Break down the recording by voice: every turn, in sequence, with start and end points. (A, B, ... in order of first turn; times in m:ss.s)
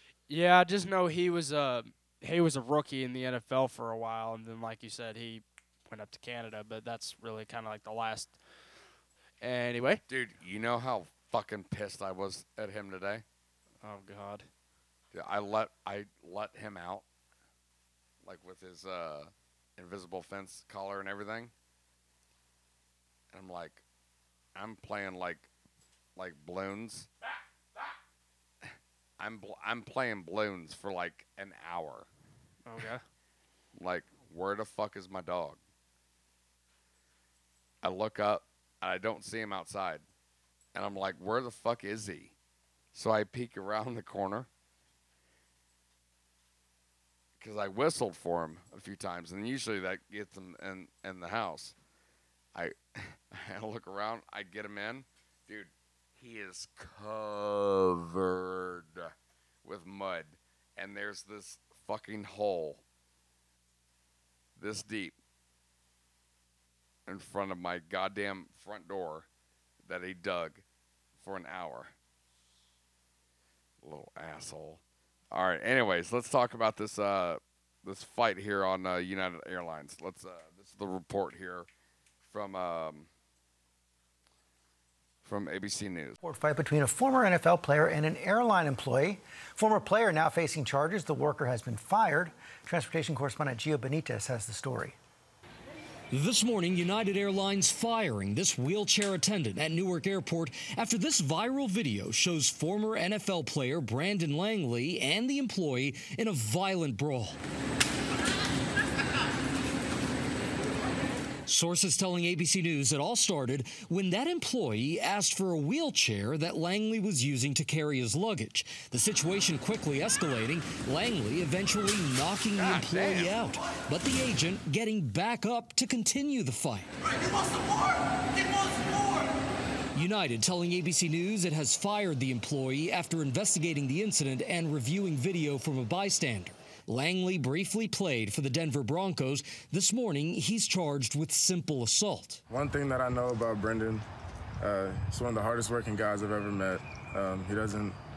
0:00.3-0:08.3 A
0:09.4-0:10.0 A
0:10.1-0:13.2 B
0:13.8-0:14.5 A
0:15.1-0:17.0 B
0:18.2-0:21.5 B
0:23.3-0:23.8 B
0:24.5-0:25.5 B
0:26.2-0:27.1 B
0:28.6-0:32.1 B
0:32.6-0:33.0 A
0:33.8-0:35.6 B
0:37.8-0:40.0 B
0:40.7-0:42.3 B
0:42.9-0:44.5 B
0:47.4-0:51.7 B
0:52.5-0:59.1 B
0:59.6-1:02.8 B
1:04.6-1:05.2 B
1:07.0-1:09.2 B
1:09.8-1:10.6 B
1:11.2-1:11.9 B
1:13.8-1:21.7 B
1:22.2-1:23.1 B
1:25.2-1:26.2 B
1:26.2-1:35.0 C
1:36.1-1:47.4 D
1:51.4-2:07.3 D
2:02.6-2:03.4 B
2:08.4-2:09.2 D
2:09.9-2:22.4 D
2:22.5-2:24.0 E
2:24.6-2:28.0 E